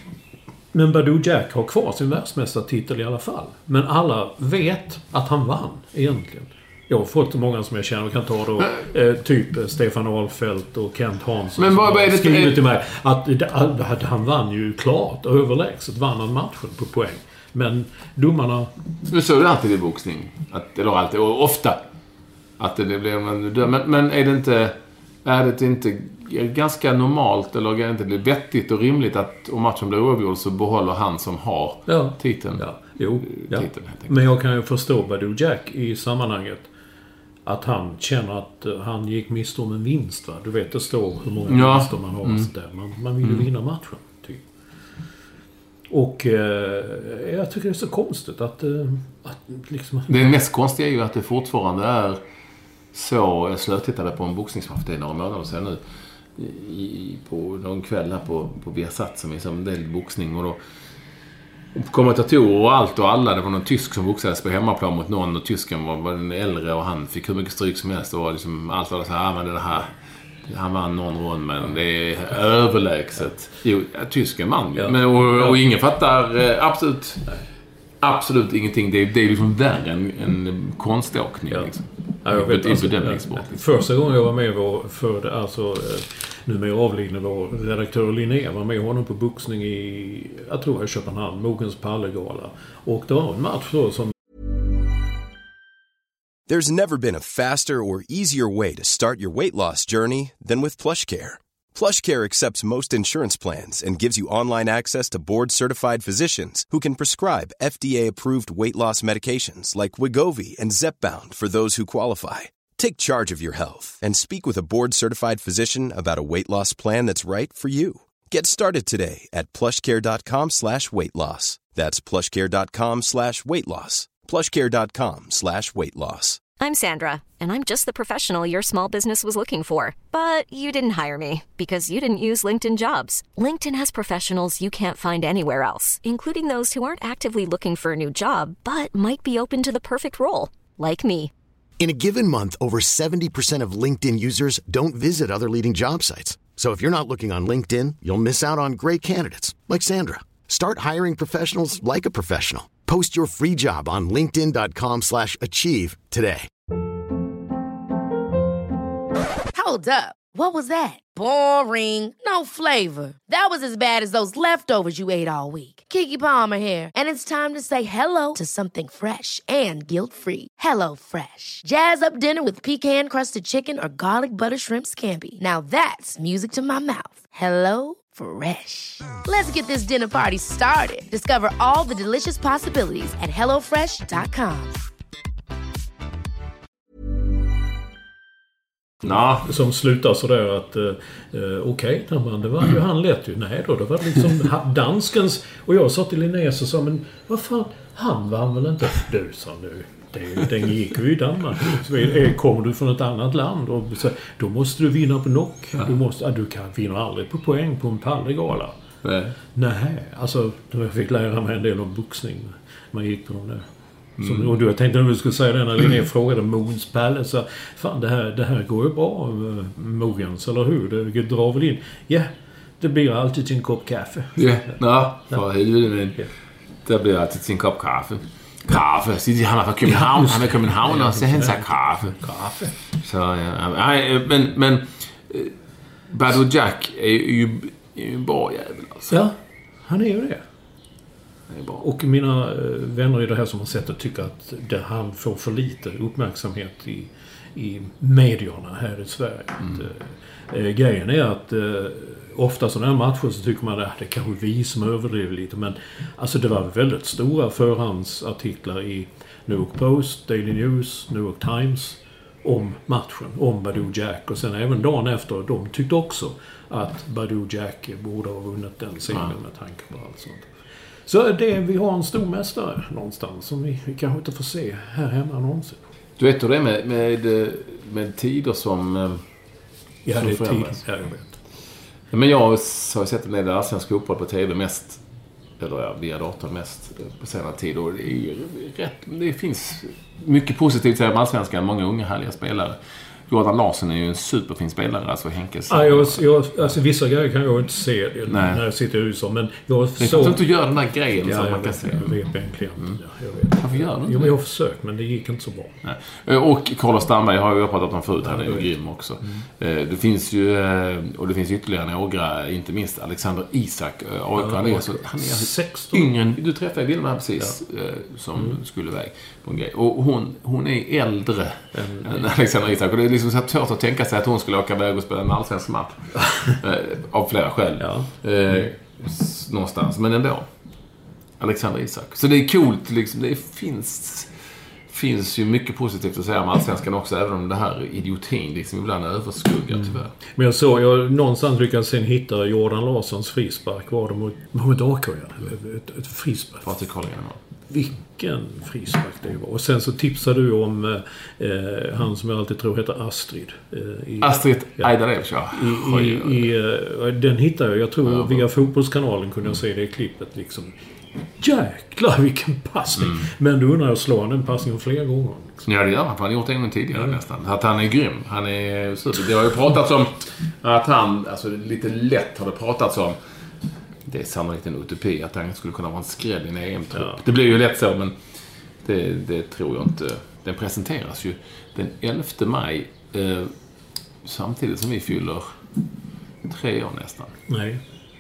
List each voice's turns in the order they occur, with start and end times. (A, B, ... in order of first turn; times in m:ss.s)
0:00.7-0:18.7 A
0:11.6-0:12.6 B
0:19.1-0:21.8 B
0:22.6-0:32.6 B
0:31.9-0:36.7 A
0:33.2-0:34.2 B
0:37.4-0:44.4 A
0:41.5-0:42.5 B
0:43.2-0:43.5 B
0:45.9-0:50.1 A
0:50.1-0:52.2 B
0:52.9-0:55.8 B
0:56.4-1:00.6 B
1:01.7-1:09.9 B
1:10.5-1:17.3 B
1:14.8-1:15.6 A
1:18.0-1:23.6 B
1:22.2-1:34.1 A
1:36.5-2:06.4 C
2:06.6-2:21.3 D
2:21.8-2:36.5 E
2:39.5-3:04.8 F
3:09.0-3:09.4 B
3:09.1-3:28.7 A
3:29.0-3:29.4 B
3:29.6-3:33.6 A
3:34.2-3:34.5 B
3:34.2-3:44.4 A
3:44.4-3:46.2 B
3:46.8-3:52.2 B
3:50.0-3:52.8 A
3:53.0-3:55.5 B
3:56.1-3:59.1 B
3:59.1-4:00.4 A
4:01.5-4:01.8 B
4:01.8-4:30.5 A
4:31.1-4:35.8 A
4:36.2-4:39.2 B
4:40.0-4:41.4 A
4:40.1-4:40.8 B
4:42.1-4:45.0 B
4:45.6-4:52.8 B
4:53.3-4:56.2 B
4:55.7-5:00.4 A
4:58.3-4:58.6 B
5:00.0-5:02.2 B
5:01.2-5:05.8 A
5:03.6-5:04.4 B
5:05.8-5:30.4 B
5:08.2-5:08.7 A
5:14.4-5:16.1 A
5:21.7-5:22.3 A
5:27.8-5:28.1 A
5:31.4-5:34.3 B
5:34.9-5:40.1 B
5:39.7-5:46.7 A
5:46.6-5:47.4 B
5:47.7-5:54.9 A
5:54.2-5:56.5 B
5:55.5-6:00.8 A
5:58.0-5:58.4 B
6:01.4-6:05.6 A
6:05.7-6:13.2 B
6:14.1-6:18.2 B
6:18.8-6:23.5 B
6:24.2-6:25.6 B
6:26.5-6:27.3 B
6:27.5-6:27.8 A